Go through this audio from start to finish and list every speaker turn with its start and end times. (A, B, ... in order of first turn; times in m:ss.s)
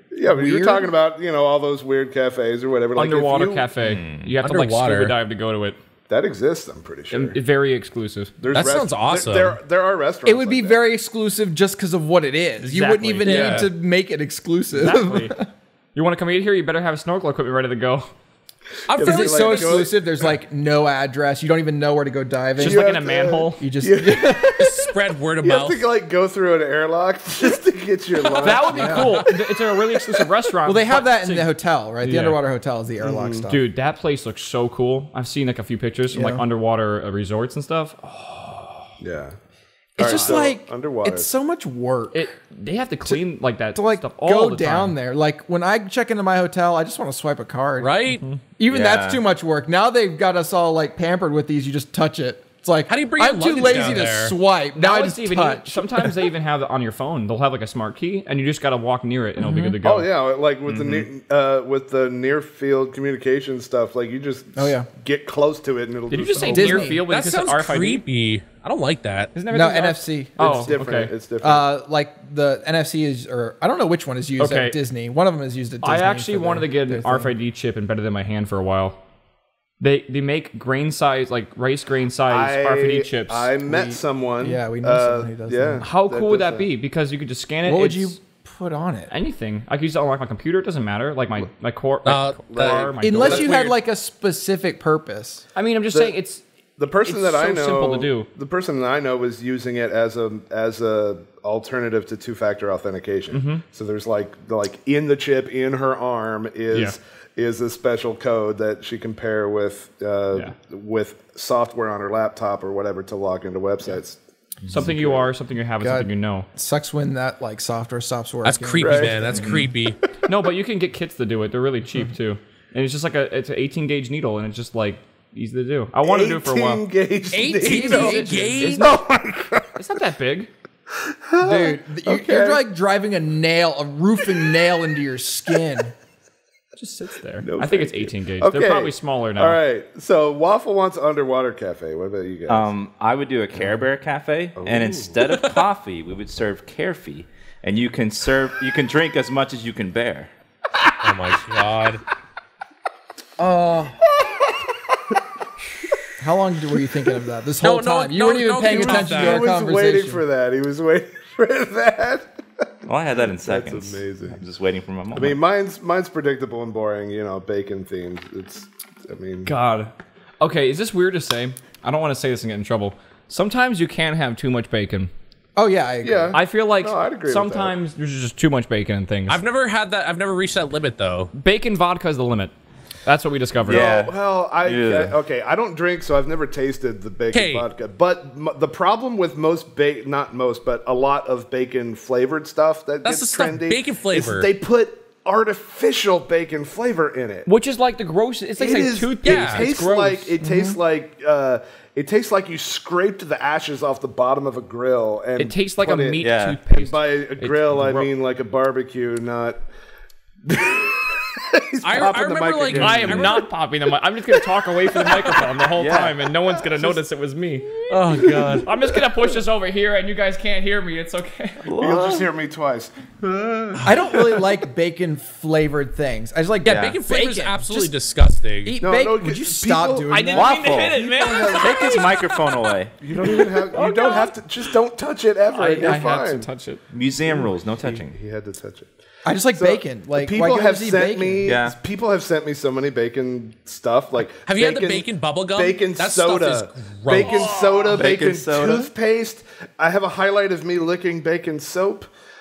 0:00.1-0:03.7 A
0:00.2-0:00.9 B
0:02.9-0:05.8 C
0:03.8-0:04.3 D
0:04.4-0:05.1 E
0:06.1-0:07.4 A
0:07.1-0:08.4 C
0:08.4-0:10.8 A
0:08.5-0:09.6 E
0:08.5-0:08.8 B
0:10.2-0:15.5 B
0:12.6-0:13.7 C
0:13.2-0:13.7 E
0:14.7-0:15.4 C
0:15.9-0:18.1 C
0:18.9-0:19.9 E
0:18.9-0:20.2 A
0:19.0-0:22.9 B
0:22.6-0:23.7 C
0:22.6-0:24.7 A
0:23.6-0:24.8 B
0:24.6-0:25.8 E
0:25.4-0:29.4 A
0:28.3-0:32.4 C
0:28.4-0:29.4 B
0:30.6-0:33.6 B
0:33.0-0:33.5 A
0:33.5-0:38.9 C
0:36.1-0:36.4 B
0:39.0-0:39.4 A
0:40.0-0:41.3 A
0:40.0-0:42.3 B
0:40.0-0:40.4 C
0:42.1-0:45.0 C
0:43.7-0:48.0 B
0:47.8-0:48.2 E
0:48.6-0:56.2 B
0:48.7-0:49.2 D
0:52.9-0:54.3 E
0:53.6-0:54.0 C
0:54.7-1:00.1 C
0:59.4-0:59.8 B
0:59.8-1:07.0 A
1:00.6-1:01.1 D
1:04.6-1:04.9 B
1:06.1-1:08.0 C
1:06.4-1:07.0 B
1:07.1-1:09.3 E
1:09.3-1:11.1 C
1:09.5-1:10.8 B
1:10.4-1:11.7 A
1:11.4-1:17.3 B
1:14.4-1:14.8 C
1:15.8-1:19.0 C
1:19.8-1:23.5 C
1:22.3-1:26.7 A
1:23.6-1:25.8 B
1:25.8-1:28.2 C
1:27.6-1:29.1 B
1:29.1-1:33.7 C
1:32.0-1:33.7 E
1:32.5-1:33.5 A
1:33.0-1:35.4 B
1:35.5-1:36.4 C
1:36.8-1:55.3 A
1:37.0-1:38.3 C
1:43.3-1:43.6 C
1:46.7-1:47.0 C
1:54.7-1:56.5 C
1:55.8-1:59.4 B
1:58.4-2:00.0 E
1:58.8-1:59.7 A
2:00.2-2:06.8 C
2:06.0-2:08.3 A
2:07.3-2:08.9 E
2:07.5-2:08.9 B
2:07.9-2:09.0 C
2:08.8-2:09.8 A
2:09.8-2:10.5 C
2:11.1-2:12.6 A
2:11.4-2:15.9 B
2:16.7-2:19.6 C
2:17.4-2:22.7 A
2:22.5-2:30.3 D
2:24.6-2:25.2 A
2:31.0-2:32.0 E
2:33.4-2:34.0 B
2:36.2-2:40.2 B
2:37.6-2:39.5 E
2:38.6-2:44.4 A
2:42.8-2:45.4 D
2:45.1-2:49.5 A
2:49.4-2:55.1 C
2:55.6-2:56.4 B
2:56.0-2:57.8 A
2:56.3-2:59.4 C
2:59.3-3:01.3 E
3:01.3-3:02.5 C
3:03.0-3:04.1 C
3:03.6-3:05.2 D
3:03.6-3:17.5 A
3:07.3-3:07.7 E
3:13.0-3:14.5 E
3:17.4-3:20.4 C
3:18.6-3:29.6 A
3:19.2-3:19.6 E
3:20.4-3:20.8 B
3:25.4-3:28.1 C
3:26.2-3:26.6 D
3:30.4-3:33.5 A
3:31.8-3:33.4 E
3:32.7-3:41.7 C
3:34.4-3:35.6 A
3:35.8-3:36.2 D
3:36.5-3:37.0 A
3:37.9-3:38.7 E
3:38.2-3:38.7 A
3:41.6-3:42.3 D
3:41.7-3:44.4 A
3:43.8-3:47.9 B
3:46.6-3:48.8 E
3:46.6-3:47.0 D
3:48.6-3:50.6 B
3:48.8-3:52.1 A
3:50.1-3:52.4 C
3:50.3-3:54.3 D
3:53.0-3:56.5 A
3:53.2-3:54.3 C
3:55.5-3:56.8 C
3:55.8-3:56.1 B
3:56.9-3:58.2 D
3:57.2-3:58.9 A
3:59.2-4:01.6 B
3:59.6-4:12.1 A
4:01.4-4:01.8 D
4:04.4-4:07.5 E
4:07.2-4:08.0 C
4:07.9-4:08.9 D